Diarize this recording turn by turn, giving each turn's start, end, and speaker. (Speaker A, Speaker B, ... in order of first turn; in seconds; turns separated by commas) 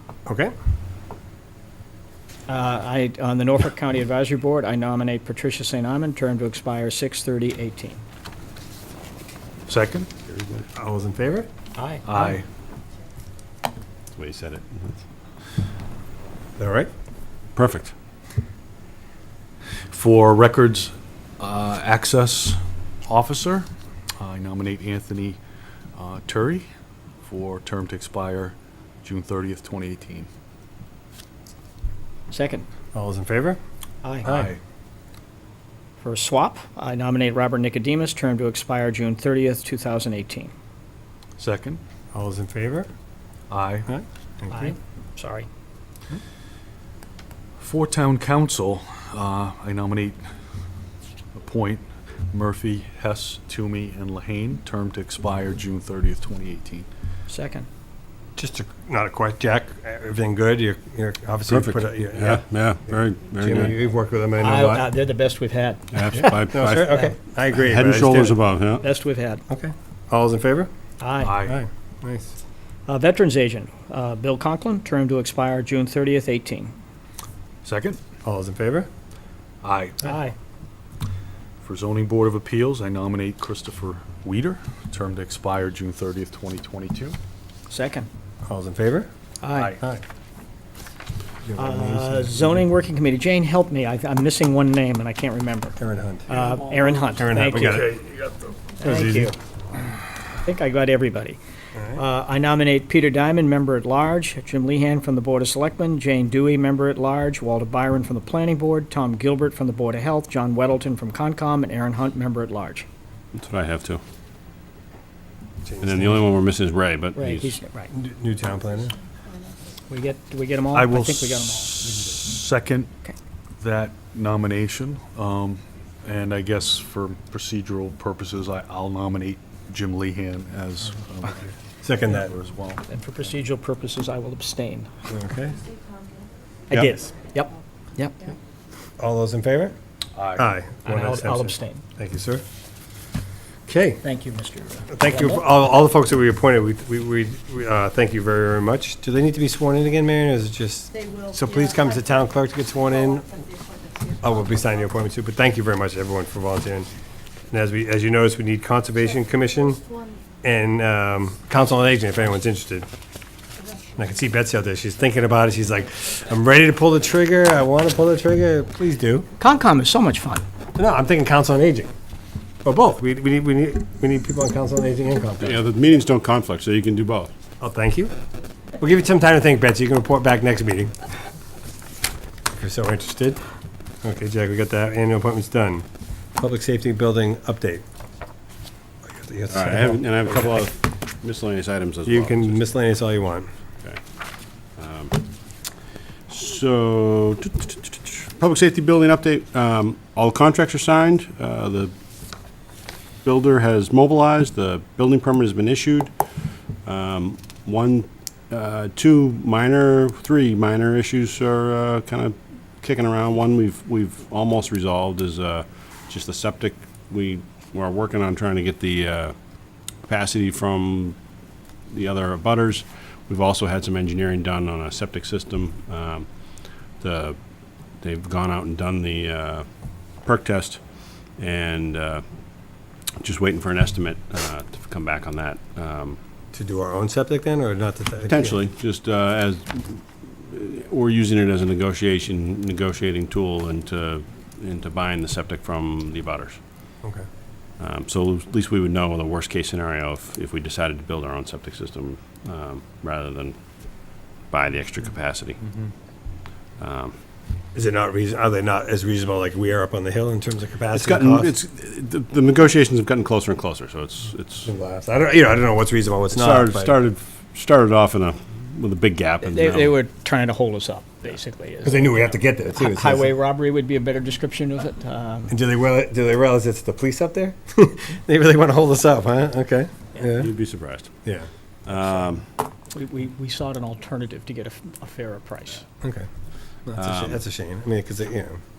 Speaker A: 0.3-0.5, Speaker B: 2.5-8.0, Speaker C: 9.7-10.1, Speaker D: 10.3-10.6, Speaker A: 10.8-11.5, Speaker B: 11.8-12.4, Speaker C: 12.0-12.4, Speaker D: 14.1-15.0, Speaker A: 16.6-16.9, Speaker D: 17.6-17.9, Speaker C: 19.9-25.4, Speaker C: 26.0-26.7, Speaker C: 27.2-30.3, Speaker B: 32.3-32.6, Speaker A: 32.9-33.6, Speaker B: 34.0-34.3, Speaker C: 34.2-34.6, Speaker A: 34.2-34.5, Speaker B: 36.0-40.5, Speaker C: 41.4-41.8, Speaker A: 42.1-42.9, Speaker C: 43.5-43.9, Speaker A: 43.9-44.7, Speaker B: 44.5-45.5, Speaker C: 47.6-50.2, Speaker C: 51.3-56.9, Speaker B: 57.3-57.7, Speaker A: 58.4-62.4, Speaker D: 61.5-63.7, Speaker A: 63.4-64.9, Speaker B: 64.4-67.1, Speaker D: 65.9-67.0, Speaker A: 66.1-68.4, Speaker D: 67.5-68.8, Speaker B: 68.8-69.4, Speaker A: 69.5-70.7, Speaker B: 71.0-71.4, Speaker C: 71.2-71.6, Speaker A: 71.4-72.3, Speaker B: 72.9-76.7, Speaker C: 77.6-78.0, Speaker A: 78.2-78.9, Speaker C: 79.6-80.1, Speaker B: 80.0-80.3, Speaker C: 81.6-87.2, Speaker B: 87.7-88.1, Speaker A: 88.4-89.1, Speaker B: 89.4-89.8, Speaker C: 89.5-89.8, Speaker A: 89.8-90.0, Speaker A: 91.4-92.6, Speaker B: 91.6-95.8, Speaker A: 95.8-96.4, Speaker B: 96.3-97.9, Speaker A: 97.1-98.0, Speaker C: 97.5-98.5, Speaker B: 98.8-99.3, Speaker A: 98.8-99.3, Speaker B: 100.4-101.4, Speaker A: 101.7-102.0, Speaker B: 102.0-112.8, Speaker D: 113.3-114.0, Speaker A: 115.6-116.3, Speaker D: 115.8-117.6, Speaker B: 117.2-117.9, Speaker A: 117.9-118.9, Speaker B: 119.9-121.7, Speaker C: 120.7-122.9, Speaker C: 123.6-131.5, Speaker A: 131.8-132.3, Speaker C: 132.1-132.8, Speaker B: 132.9-134.9, Speaker A: 135.1-135.6, Speaker B: 136.7-138.3, Speaker A: 139.0-139.8, Speaker C: 140.2-140.5, Speaker A: 140.3-142.4, Speaker B: 140.8-141.8, Speaker A: 143.7-144.0, Speaker B: 144.0-145.4, Speaker A: 144.9-153.3, Speaker A: 154.2-156.9, Speaker A: 157.5-159.8, Speaker A: 160.4-162.9, Speaker A: 164.0-169.3, Speaker B: 169.4-170.4, Speaker A: 170.8-171.9, Speaker A: 172.6-175.6, Speaker D: 175.4-177.3, Speaker A: 177.6-178.1, Speaker A: 178.8-180.9, Speaker A: 182.6-183.4, Speaker A: 184.0-185.8, Speaker A: 186.4-187.8, Speaker A: 189.0-190.7, Speaker D: 189.5-192.6, Speaker A: 192.1-193.5, Speaker D: 194.8-195.2, Speaker D: 196.3-201.9, Speaker D: 203.2-206.1, Speaker D: 206.8-219.3, Speaker D: 220.1-221.2, Speaker D: 221.9-226.3, Speaker D: 227.0-227.4, Speaker D: 228.0-229.7, Speaker D: 230.2-230.8, Speaker D: 231.4-232.2, Speaker D: 233.2-236.2, Speaker A: 236.5-238.6, Speaker D: 238.3-246.6, Speaker D: 247.8-253.6, Speaker D: 254.5-255.6, Speaker D: 256.8-257.1, Speaker A: 257.8-261.6, Speaker D: 260.9-264.7, Speaker A: 264.6-266.9, Speaker D: 266.3-270.0, Speaker B: 269.4-275.5, Speaker A: 271.8-273.4, Speaker A: 275.5-280.5, Speaker D: 280.4-281.1, Speaker A: 281.2-282.0, Speaker D: 281.9-282.5, Speaker B: 282.9-285.9, Speaker A: 286.0-286.3, Speaker A: 286.9-288.6, Speaker D: 287.0-287.4